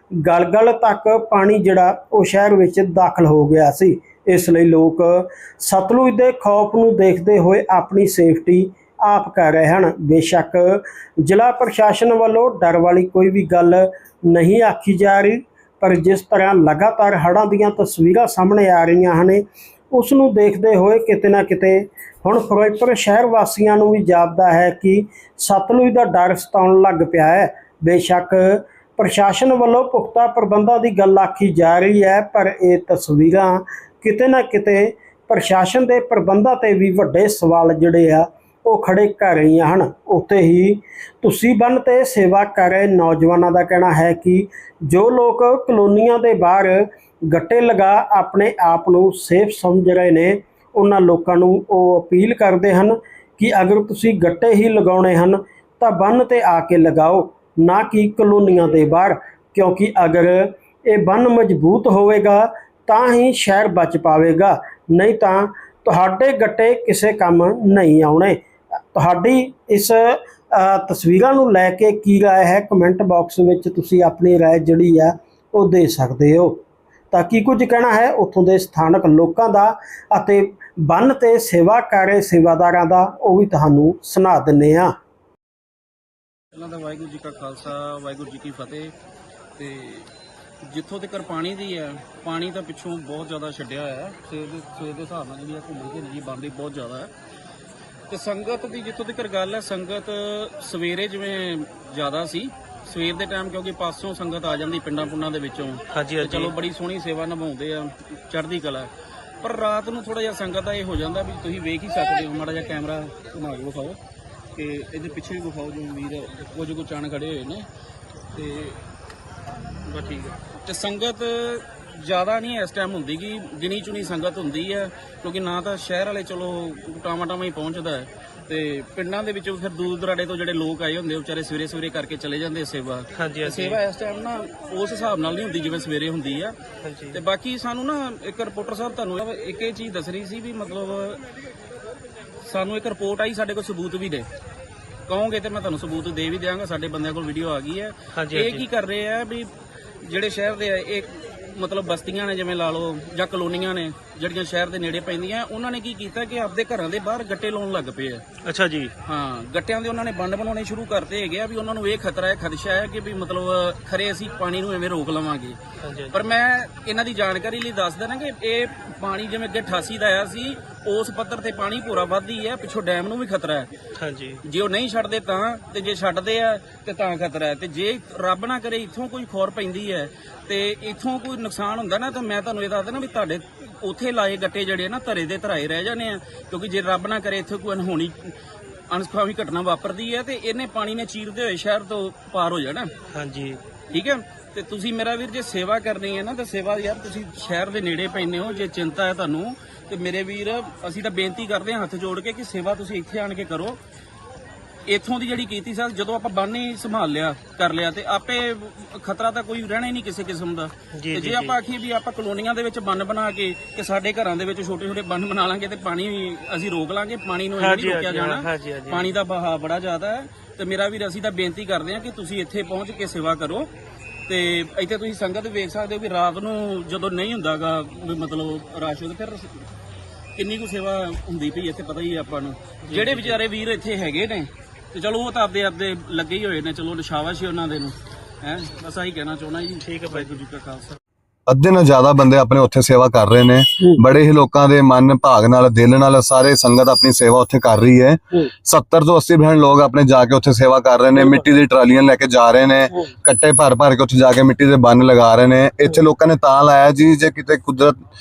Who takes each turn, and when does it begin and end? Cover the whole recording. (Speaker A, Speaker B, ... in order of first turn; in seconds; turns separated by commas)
Speaker A: 0.2-68.4, Speaker A: 68.9-84.9, Speaker B: 86.5-88.9, Speaker B: 89.6-90.1, Speaker B: 90.7-97.1, Speaker B: 98.1-108.9, Speaker C: 105.9-106.5, Speaker B: 109.4-114.0, Speaker B: 114.5-117.7, Speaker B: 118.3-118.8, Speaker C: 119.9-120.3, Speaker B: 120.0-136.6, Speaker C: 133.2-133.8, Speaker C: 136.8-137.2, Speaker B: 137.1-141.2, Speaker B: 142.4-144.3, Speaker B: 145.1-149.5, Speaker C: 148.1-148.6, Speaker B: 150.0-158.2, Speaker C: 158.4-158.9, Speaker B: 159.1-165.6, Speaker C: 165.8-166.1, Speaker B: 166.1-173.7, Speaker C: 174.0-174.4, Speaker B: 174.4-188.4, Speaker B: 188.9-192.9, Speaker C: 193.1-193.6, Speaker B: 193.9-203.8, Speaker B: 204.9-223.7, Speaker C: 210.9-211.6, Speaker C: 217.6-219.1, Speaker B: 224.3-229.6, Speaker B: 230.4-241.0, Speaker C: 232.8-233.4, Speaker C: 239.8-240.4, Speaker D: 241.5-258.0, Speaker A: 251.2-251.5